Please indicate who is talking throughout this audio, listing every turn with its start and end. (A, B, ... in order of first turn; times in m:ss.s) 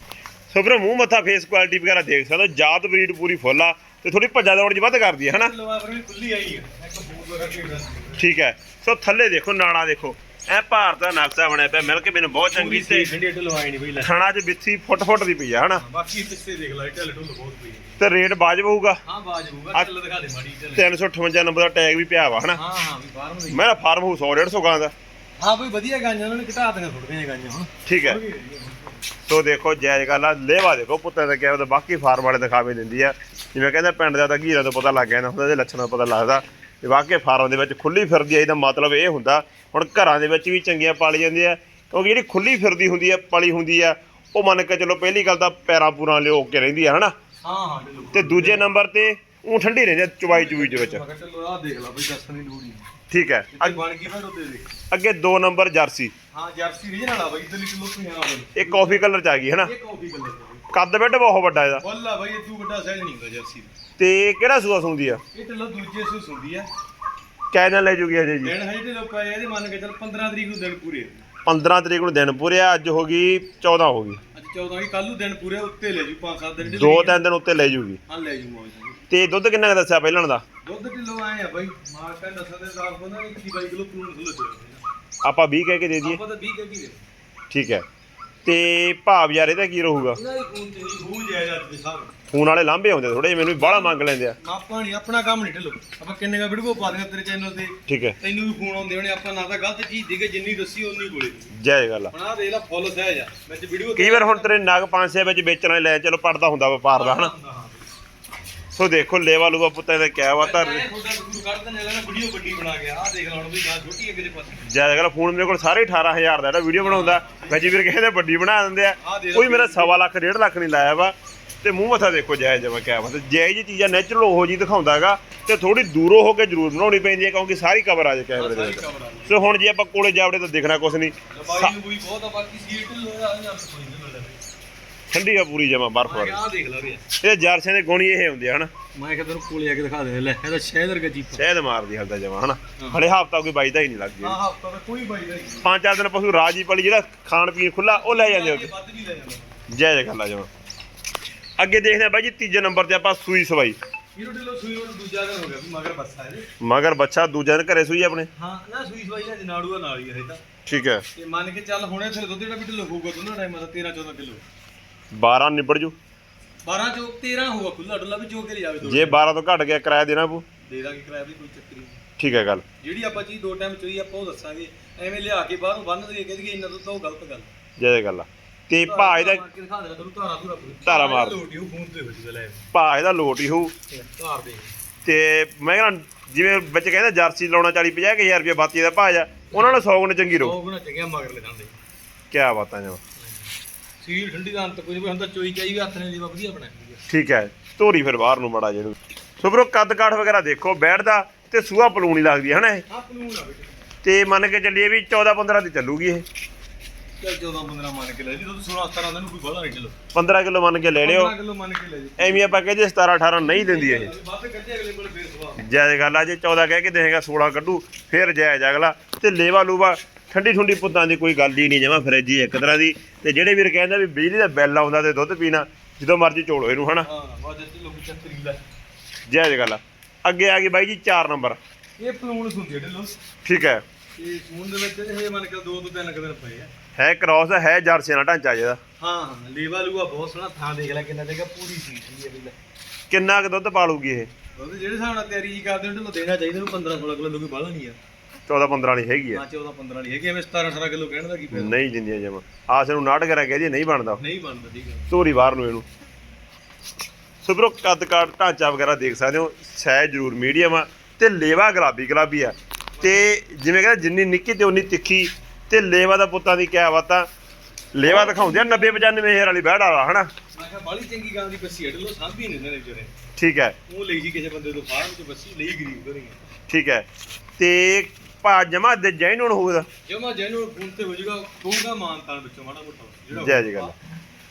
0:00.5-0:05.5 A
0:05.3-0:08.2 B
0:08.2-0:13.1 A
0:12.5-0:14.1 B
0:14.0-0:15.8 A
0:15.8-0:18.0 B
0:18.0-0:19.0 A
0:19.0-0:20.9 B
0:20.8-0:22.6 A
0:22.5-0:23.7 B
0:23.5-0:24.9 A
0:25.4-0:29.1 B
0:27.9-0:28.2 A
0:29.3-0:47.2 A
0:47.4-0:48.7 B
0:48.1-0:51.0 A
0:50.3-0:52.9 B
0:53.1-0:53.8 A
0:53.5-0:54.7 B
0:54.9-0:56.1 A
0:56.3-0:59.1 B
0:58.6-0:59.7 A
0:59.6-1:00.6 B
1:00.7-1:01.8 A
1:01.8-1:03.7 B
1:04.0-1:05.2 A
1:05.3-1:06.7 B
1:07.5-1:08.5 A
1:08.4-1:11.2 B
1:11.5-1:14.2 A
1:14.3-1:17.2 B
1:16.8-1:18.0 A
1:18.1-1:19.0 B
1:19.1-1:20.4 A
1:20.6-1:24.8 B
1:25.2-1:26.2 A
1:26.0-1:27.0 B
1:27.5-1:27.8 A
1:28.4-1:30.2 A
1:30.1-1:32.2 B
1:32.3-1:34.4 A
1:33.6-1:41.5 B
1:37.9-1:38.2 A
1:41.5-1:42.1 A
1:42.1-1:44.5 B
1:44.0-1:47.3 A
1:46.9-1:47.9 B
1:48.7-1:50.9 A
1:50.4-1:54.7 B
1:54.6-2:11.7 A
1:56.8-1:57.8 B
1:59.0-2:00.0 B
2:08.4-2:09.4 B
2:11.3-2:14.4 B
2:15.1-2:16.4 A
2:16.0-2:17.0 B
2:17.2-2:18.7 A
2:19.0-2:21.4 B
2:21.3-2:24.4 A
2:24.2-2:25.7 B
2:25.6-2:28.7 A
2:27.9-2:29.7 B
2:29.7-2:30.5 A
2:31.6-2:33.8 A
2:34.2-2:36.5 B
2:36.6-2:38.3 A
2:38.4-2:40.4 B
2:40.7-2:41.0 A
2:41.2-2:44.4 B
2:45.1-2:46.0 A
2:46.6-2:49.2 B
2:48.8-2:50.5 A
2:50.6-2:52.0 B
2:52.2-2:52.6 A
2:52.8-2:57.5 B
2:57.8-2:59.4 A
2:58.9-3:02.7 B
3:00.8-3:01.4 A
3:02.7-3:03.7 A
3:03.9-3:04.7 B
3:05.0-3:10.6 A
3:09.5-3:09.8 B
3:10.4-3:11.7 B
3:12.3-3:13.0 A
3:13.2-3:13.5 B
3:14.0-3:17.0 B
3:17.1-3:22.8 A
3:22.9-3:23.9 B
3:24.0-3:26.2 A
3:27.2-3:30.0 B
3:30.1-3:31.3 A
3:31.0-3:32.6 B
3:32.2-3:34.2 A
3:33.4-3:35.6 B
3:35.6-3:47.1 A
3:47.0-3:48.6 B
3:49.3-3:51.6 A
3:52.0-3:53.2 B
3:53.4-3:53.8 A
3:54.2-3:56.7 B
3:57.0-3:58.8 A
3:59.0-4:02.6 B
4:03.1-4:04.3 A
4:04.6-4:08.0 B
4:08.5-4:09.4 A
4:09.3-4:11.7 B
4:11.5-4:14.2 A
4:14.2-4:15.1 B
4:15.1-4:15.8 A
4:17.4-4:27.3 A
4:23.0-4:23.3 B
4:27.9-4:30.3 A
4:28.0-4:29.1 B
4:30.5-4:33.1 B
4:33.4-4:33.8 A
4:33.9-4:36.4 B
4:36.7-4:37.1 A
4:37.6-4:39.9 A
4:40.1-4:44.0 B
4:43.4-4:43.9 A